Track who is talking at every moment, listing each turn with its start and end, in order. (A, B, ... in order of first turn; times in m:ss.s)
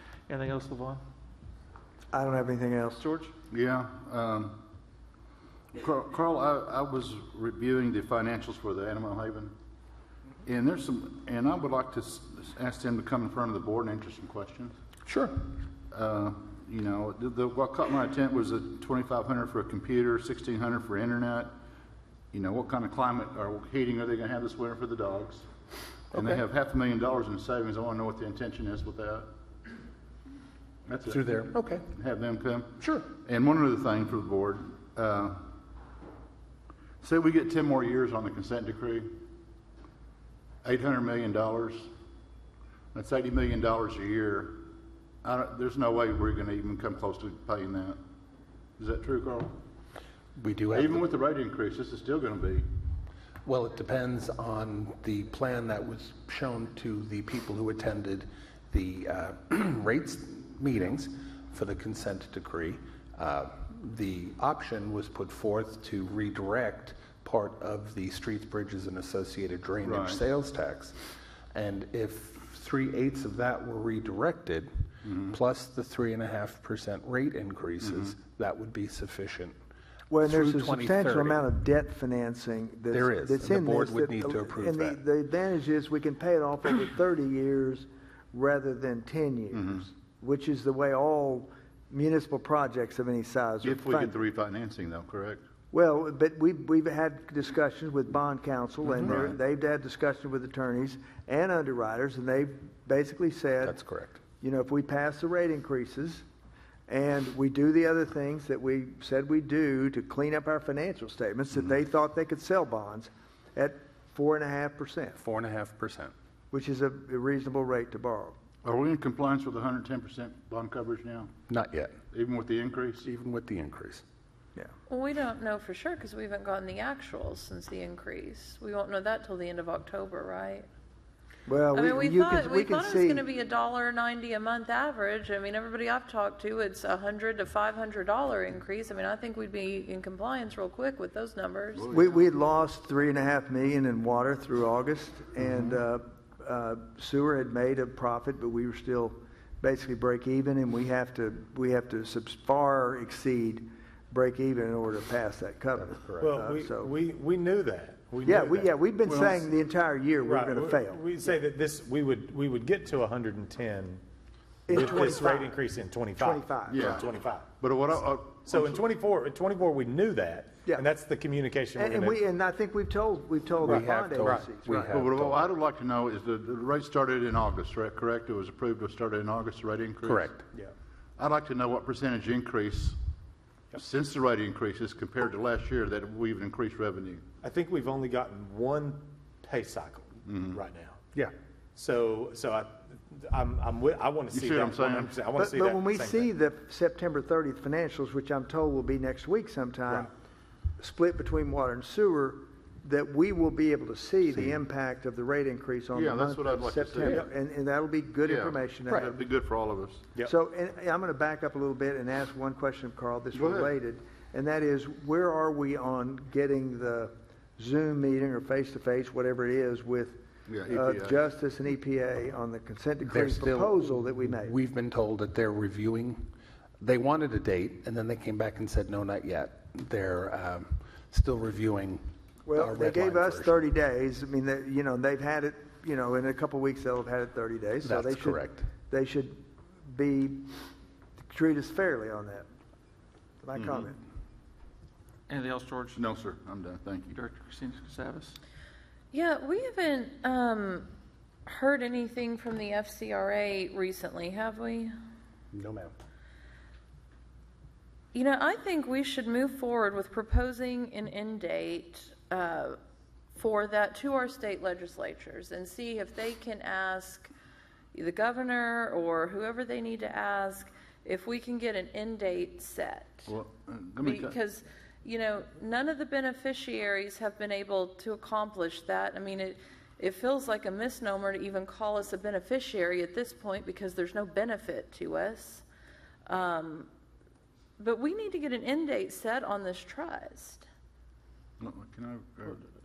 0:00.3-0:01.0 A
0:02.1-0:03.0 B
0:03.0-0:03.3 A
0:03.5-0:04.6 C
0:05.7-0:09.5 C
0:10.4-0:14.8 C
0:15.0-0:15.5 D
0:15.9-0:21.5 C
0:22.3-0:25.5 C
0:26.1-0:26.4 D
0:26.1-0:29.3 C
0:30.9-0:35.5 C
0:31.0-0:31.8 D
0:32.8-0:33.1 D
0:37.0-0:39.2 C
0:40.6-0:41.9 C
0:42.9-0:44.7 C
0:45.2-0:48.0 C
0:48.8-0:49.6 C
0:50.4-0:51.0 D
0:50.7-0:52.6 C
0:53.4-1:14.7 D
1:09.8-1:10.2 C
1:15.0-1:15.4 C
1:15.3-1:19.6 D
1:17.8-1:18.1 C
1:20.1-1:34.2 B
1:20.2-1:21.4 D
1:22.9-1:25.0 D
1:29.5-1:29.8 C
1:33.6-1:35.4 C
1:35.7-1:43.8 B
1:38.8-1:39.1 D
1:39.0-1:39.4 C
1:43.6-1:44.2 D
1:44.4-1:46.2 B
1:46.9-1:55.2 B
1:55.2-1:56.1 D
1:56.5-1:58.4 B
1:58.6-2:01.3 C
2:01.5-2:02.0 D
2:02.1-2:03.1 C
2:03.0-2:04.0 D
2:04.9-2:10.7 E
2:11.5-2:13.2 B
2:11.7-2:21.9 E
2:21.7-2:22.3 C
2:21.9-2:36.9 B
2:25.5-2:25.7 C
2:35.8-2:36.2 D
2:36.2-2:38.7 F
2:38.2-2:41.3 B
2:39.0-2:39.4 C
2:40.2-2:44.0 F
2:44.6-2:45.6 B
2:44.7-2:47.5 F
2:46.2-2:47.0 B
2:46.7-2:47.1 C
2:47.6-2:48.8 C
2:48.4-2:52.2 F
2:51.8-2:54.9 B
2:53.6-2:55.5 D
2:53.6-2:54.8 F
2:54.8-3:00.3 C
3:00.0-3:00.4 D
3:01.2-3:03.0 C
3:03.7-3:07.2 C
3:07.4-3:11.0 F
3:10.2-3:10.6 C
3:11.7-3:16.3 F
3:14.3-3:15.2 C
3:15.3-3:20.1 B
3:20.8-3:29.2 B
3:25.9-3:27.2 C
3:28.2-3:30.0 C
3:30.2-3:40.2 B
3:33.3-3:33.7 C
3:40.5-3:41.3 C
3:40.7-3:44.5 B
3:43.0-3:46.3 D
3:46.8-3:53.6 D
3:52.4-4:00.5 B
3:57.8-3:58.7 D
4:01.3-4:02.4 B
4:03.4-4:04.0 B
4:03.5-4:03.9 C
4:05.3-4:06.0 A
4:06.0-4:07.2 C
4:07.1-4:08.4 A
4:09.1-4:10.9 E
4:11.4-4:14.9 E
4:15.5-4:15.9 D
4:18.1-4:22.8 E
4:23.3-4:27.3 E
4:27.9-4:33.3 E
4:33.3-4:34.4 C
4:34.0-4:45.6 E
4:46.3-4:46.9 E
4:47.8-4:50.6 E
4:51.6-4:52.6 C